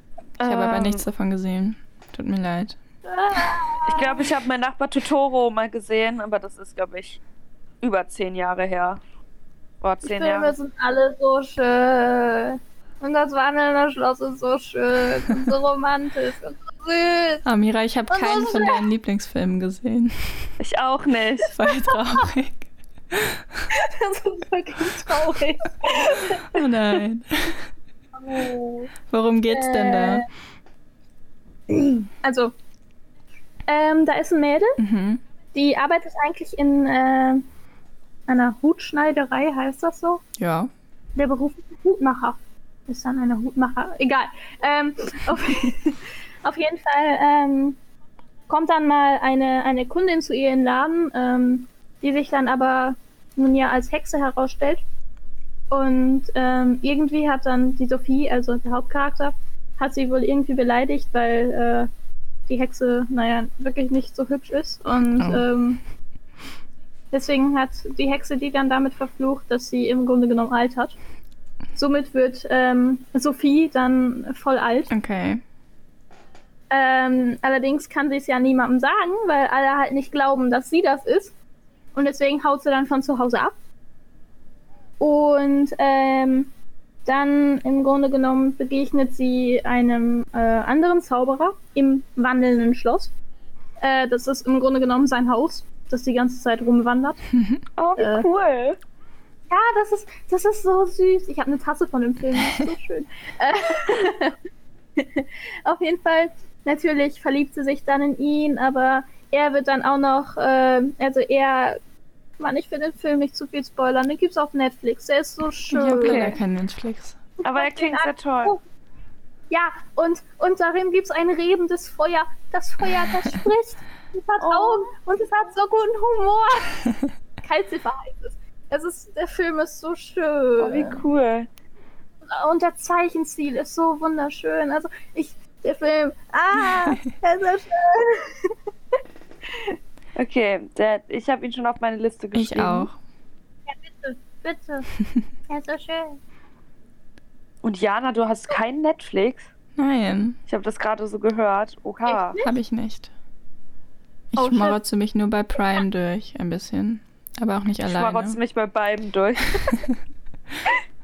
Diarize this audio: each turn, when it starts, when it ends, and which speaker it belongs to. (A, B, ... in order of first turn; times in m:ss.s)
0:00.4-0:01.0 A
0:00.4-0:02.8 B
0:03.1-0:04.2 C
0:03.9-0:07.2 A
0:07.8-0:09.0 A
0:09.8-0:10.6 A
0:10.0-0:17.4 C
0:17.4-0:20.5 B
0:18.1-0:18.8 C
0:20.6-0:21.6 A
0:21.5-0:23.7 B
0:23.7-0:26.5 C
0:26.4-0:27.7 B
0:28.2-0:28.9 C
0:29.1-0:30.3 B
0:29.5-0:30.3 C
0:31.7-0:32.5 C
0:33.7-0:34.8 C
0:34.8-0:35.2 B
0:35.5-0:37.4 C
0:38.3-0:40.2 C
0:40.4-0:40.7 B
0:41.2-0:47.8 C
0:48.5-0:54.8 C
0:55.7-1:01.9 C
1:02.5-1:05.8 C
1:05.2-1:05.5 B
1:07.1-1:11.0 C
1:11.8-1:14.9 C
1:14.9-1:15.4 B
1:16.7-1:21.3 C
1:22.0-1:23.6 C
1:25.0-1:26.5 C
1:27.1-1:33.1 C
1:33.8-1:37.3 C
1:37.3-1:37.6 B
1:37.8-1:38.8 A
1:38.0-1:38.3 C
1:39.5-1:44.4 C
1:45.0-1:51.8 C
1:52.4-1:56.4 C
1:55.7-1:57.2 B
1:55.8-1:56.4 A
1:57.4-1:58.6 C
1:57.4-1:58.6 A
1:59.5-2:06.9 C
2:04.4-2:04.9 A
2:07.4-2:11.0 C
2:10.6-2:11.5 A
2:12.3-2:18.5 C
2:16.6-2:17.0 B
2:19.5-2:19.8 C
2:20.2-2:22.9 A
2:22.4-2:23.0 B
2:23.7-2:24.9 C
2:25.5-2:26.2 C
2:27.6-2:29.5 A
2:29.8-2:30.4 B
2:30.5-2:32.4 A
2:32.1-2:32.5 C
2:32.4-2:33.1 B
2:34.3-2:38.4 B
2:34.4-2:34.8 C
2:37.9-2:39.8 A